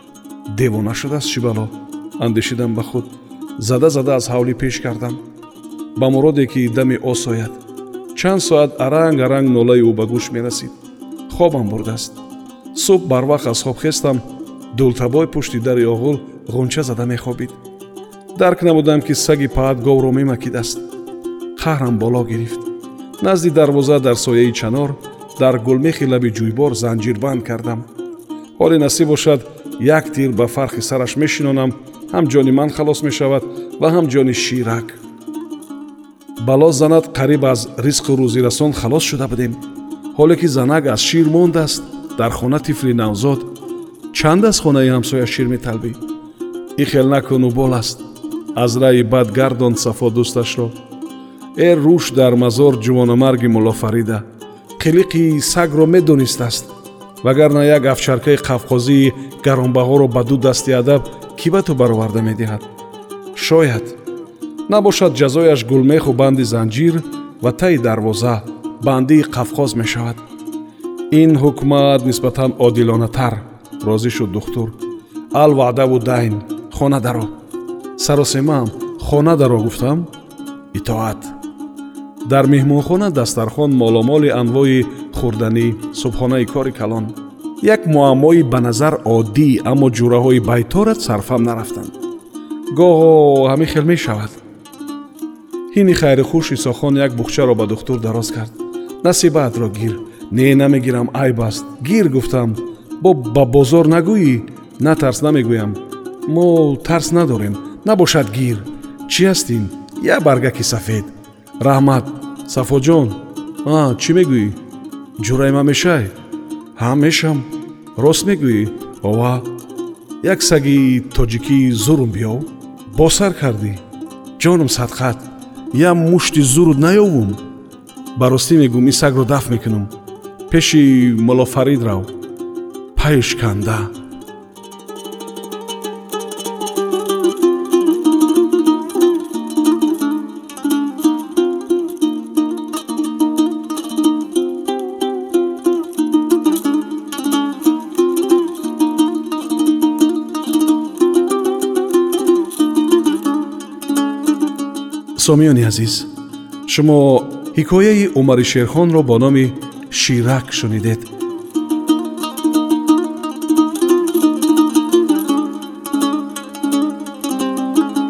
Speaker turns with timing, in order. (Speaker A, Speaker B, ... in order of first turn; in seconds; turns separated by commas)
Speaker A: 0.5-3.1, Speaker A: 3.6-5.2, Speaker A: 6.0-7.6, Speaker A: 8.2-10.7, Speaker A: 11.3-12.2, Speaker A: 12.8-14.2, Speaker A: 14.8-17.5, Speaker A: 18.4-20.8, Speaker A: 21.6-22.6, Speaker A: 23.2-27.9, Speaker A: 28.6-35.0, Speaker A: 36.4-39.6, Speaker A: 40.1-43.5, Speaker A: 44.1-46.0, Speaker A: 46.8-48.0, Speaker A: 48.6-50.7, Speaker A: 51.6-54.2, Speaker A: 54.8-56.7, Speaker A: 57.2-62.6, Speaker A: 63.4-64.0, Speaker A: 64.7-70.2, Speaker A: 71.1-74.7, Speaker A: 75.3-77.3, Speaker A: 78.0-80.1, Speaker A: 80.7-81.3, Speaker A: 82.2-91.9, Speaker A: 92.7-94.4, Speaker A: 95.7-114.6, Speaker A: 115.2-116.1, Speaker A: 116.8-119.5, Speaker A: 120.2-123.8, Speaker A: 124.4-127.4, Speaker A: 128.2-129.9, Speaker A: 130.5-132.1, Speaker A: 133.0-133.9, Speaker A: 155.2-156.1, Speaker A: 156.7-161.1